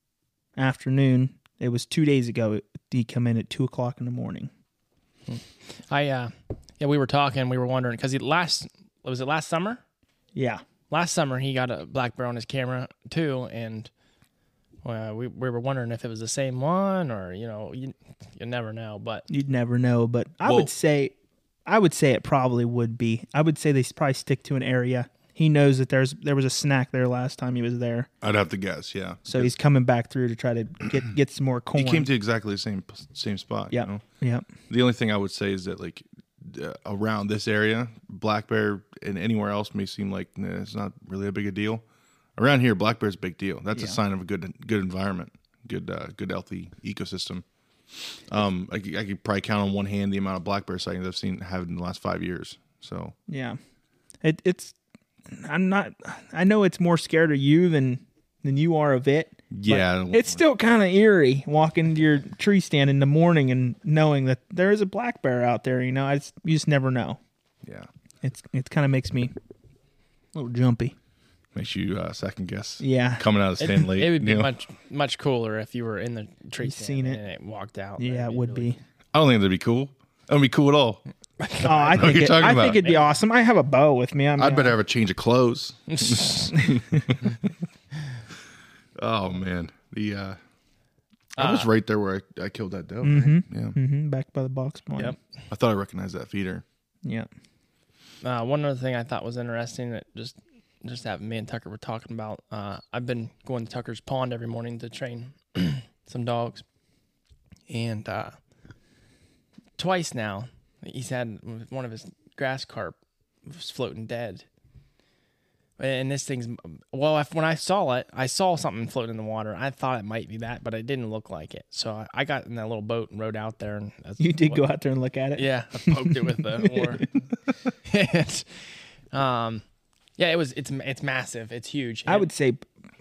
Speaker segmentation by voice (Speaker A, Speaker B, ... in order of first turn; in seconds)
Speaker A: 0.6-4.5, 10.3-10.6, 19.3-21.1, 21.6-28.1, 29.3-32.1, 33.7-34.4, 53.3-53.6, 54.2-54.8, 55.3-67.2, 68.2-69.3, 70.3-70.9, 72.8-73.2, 76.6-77.2, 78.0-78.8, 81.6-84.8, 86.5-87.1, 93.0-95.1, 124.2-127.1, 132.1-132.6
Speaker B: 5.3-9.8, 10.9-13.9, 14.8-19.2, 73.6-78.7, 81.4-83.0, 85.9-86.5, 91.4-91.7, 98.2-106.6, 107.7-108.3, 109.8-114.4, 115.8-124.6, 125.3-127.1, 127.8-129.6, 130.2-132.3
Speaker C: 20.4-20.7, 28.2-29.5, 31.8-34.0, 34.7-41.8, 42.4-47.4, 48.3-53.1, 59.5-60.4, 71.5-74.5, 79.1-81.0, 81.9-82.8, 84.4-87.5, 89.0-90.4, 91.3-93.8, 95.5-96.6